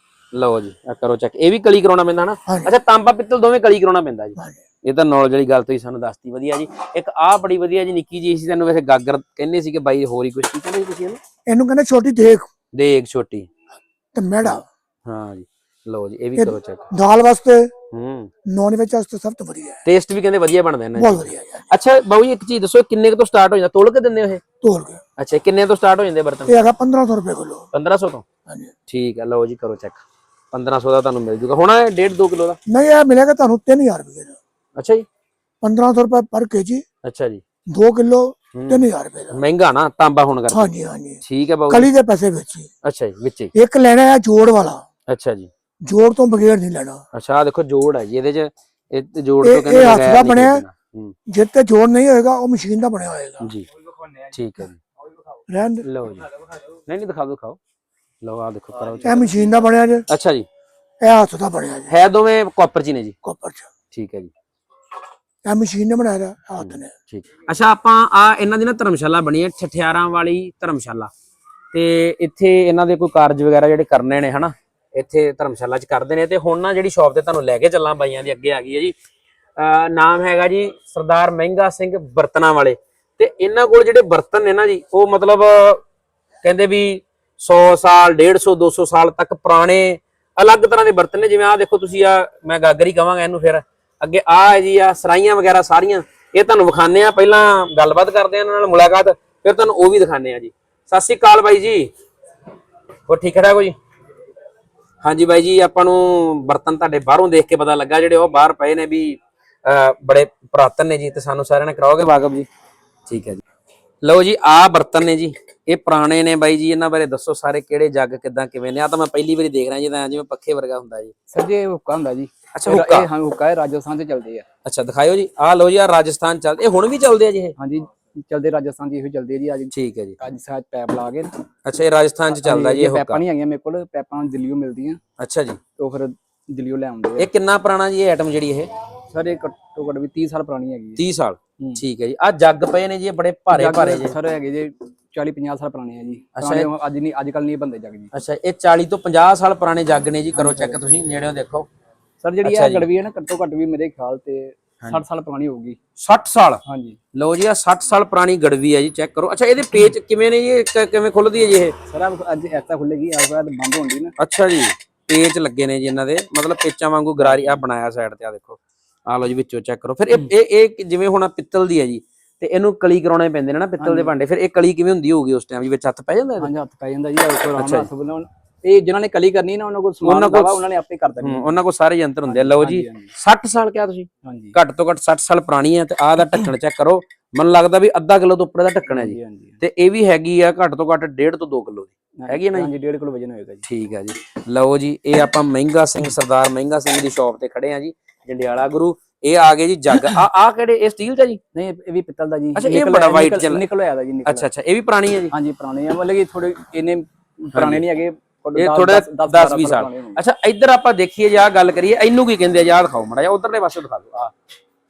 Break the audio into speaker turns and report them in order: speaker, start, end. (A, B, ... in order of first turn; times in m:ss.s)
0:00.3-0:11.2 A
0:02.5-0:02.8 B
0:11.5-0:12.5 B
0:12.7-0:13.5 A
0:14.1-0:14.6 B
0:15.1-0:16.8 A
0:16.4-0:17.7 B
0:17.9-0:18.3 A
0:18.5-0:19.8 B
0:19.8-0:24.4 A
0:21.0-0:21.7 B
0:24.6-0:25.0 B
0:25.2-0:26.7 A
0:26.5-0:27.7 B
0:27.7-0:28.2 A
0:28.5-0:28.7 B
0:28.9-0:32.6 A
0:32.7-0:34.4 B
0:34.8-0:35.0 A
0:35.6-0:36.8 B
0:37.0-0:37.4 A
0:37.7-0:39.4 B
0:38.5-0:40.7 A
0:40.5-0:42.7 B
0:41.2-0:41.9 A
0:42.8-0:43.5 A
0:43.5-0:44.8 B
0:45.1-0:45.5 A
0:45.8-0:47.0 B
0:47.1-0:51.2 A
0:49.4-0:50.6 B
0:51.3-0:53.5 B
0:53.4-0:53.7 A
0:54.3-0:54.8 A
0:55.5-0:55.9 B
0:55.8-0:56.3 A
0:56.9-0:57.6 A
0:58.2-0:59.4 A
0:59.0-1:00.1 B
1:00.1-1:00.5 A
1:01.0-1:02.0 B
1:01.9-1:03.2 A
1:03.2-1:03.7 B
1:03.9-1:04.3 A
1:05.4-1:06.9 B
1:06.6-1:11.1 A
1:11.7-1:19.0 A
1:19.6-1:25.8 A
1:26.4-1:41.9 A
1:43.1-1:43.8 A
1:45.0-1:52.5 A
1:53.1-1:53.4 A
1:54.0-2:01.1 A
2:01.3-2:04.5 C
2:02.6-2:03.1 A
2:04.6-2:07.6 A
2:07.6-2:11.3 C
2:09.7-2:10.2 A
2:11.6-2:13.2 A
2:12.3-2:15.0 C
2:15.2-2:15.6 A
2:15.8-2:17.3 C
2:17.2-2:18.7 A
2:19.1-2:21.0 C
2:21.0-2:24.2 A
2:23.5-2:28.1 C
2:26.4-2:26.7 A
2:28.1-2:31.7 A
2:30.4-2:30.8 C
2:32.2-2:35.8 C
2:32.4-2:32.9 A
2:36.0-2:36.6 A
2:36.7-2:37.0 C
2:37.1-2:41.8 A
2:41.9-2:44.1 C
2:44.2-2:56.5 A
2:47.2-2:47.6 C
2:53.8-2:54.1 C
2:56.4-3:01.5 C
2:57.4-2:57.9 A
3:00.0-3:00.6 A
3:01.2-3:12.7 A
3:02.3-3:03.1 C
3:04.2-3:04.6 C
3:08.9-3:09.6 C
3:12.2-3:13.6 C
3:13.6-3:21.4 A
3:21.5-3:24.5 C
3:22.6-3:23.6 A
3:24.3-3:25.3 A
3:25.3-3:30.2 C
3:27.5-3:27.8 A
3:28.6-3:34.3 A